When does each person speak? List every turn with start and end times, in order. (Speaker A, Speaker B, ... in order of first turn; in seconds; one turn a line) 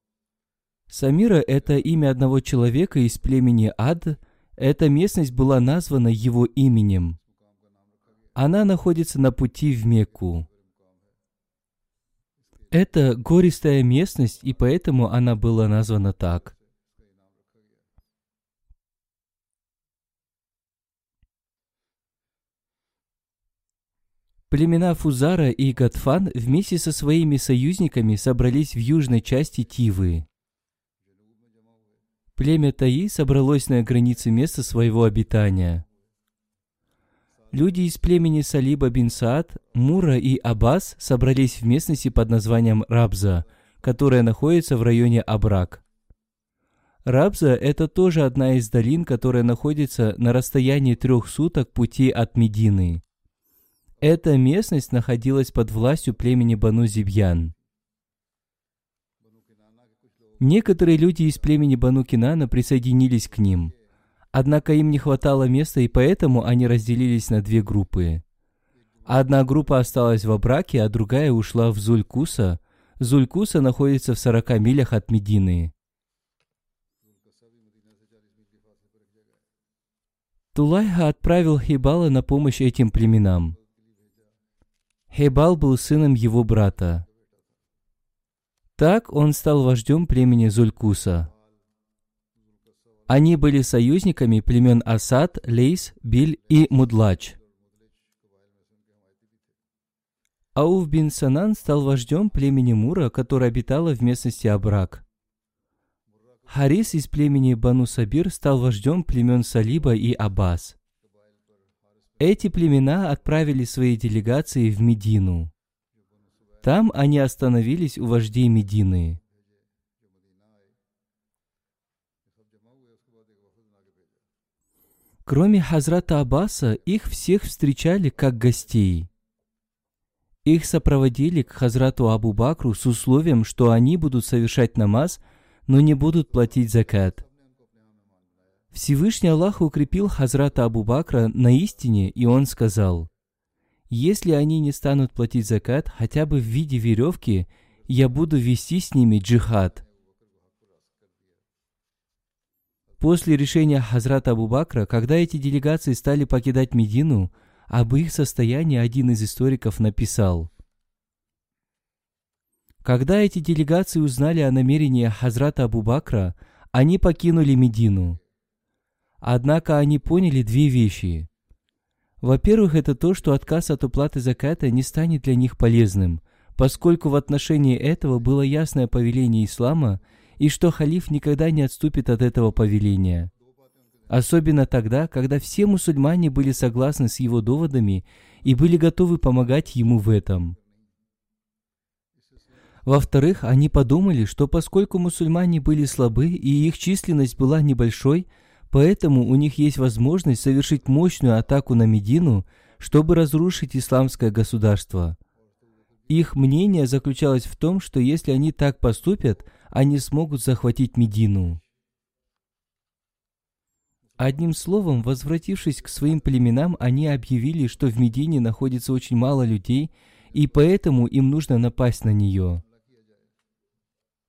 Speaker A: 0.9-7.2
Speaker A: 8.3-10.5
Speaker A: 12.7-16.5
Speaker A: 24.5-30.2
Speaker A: 32.4-35.8
Speaker A: 37.5-45.8
Speaker A: 47.0-53.0
Speaker A: 54.0-57.5
Speaker A: 60.4-63.7
Speaker A: 64.3-68.2
Speaker A: 69.0-75.7
Speaker A: 80.5-83.5
Speaker A: 85.1-87.0
Speaker A: 88.8-91.3
Speaker A: 93.1-97.4
Speaker A: 100.5-105.0
Speaker A: 106.5-110.8
Speaker A: 112.2-115.5
Speaker A: 116.6-119.2
Speaker A: 125.2-129.1
Speaker A: 130.4-137.2
Speaker A: 138.7-143.1
Speaker A: 143.9-149.8
Speaker A: 153.0-160.5
Speaker A: 162.8-168.2
Speaker A: 169.2-171.3
Speaker A: 172.2-183.3
Speaker A: 184.1-190.6
Speaker A: 192.8-205.2
Speaker A: 206.1-211.6
Speaker A: 214.2-222.6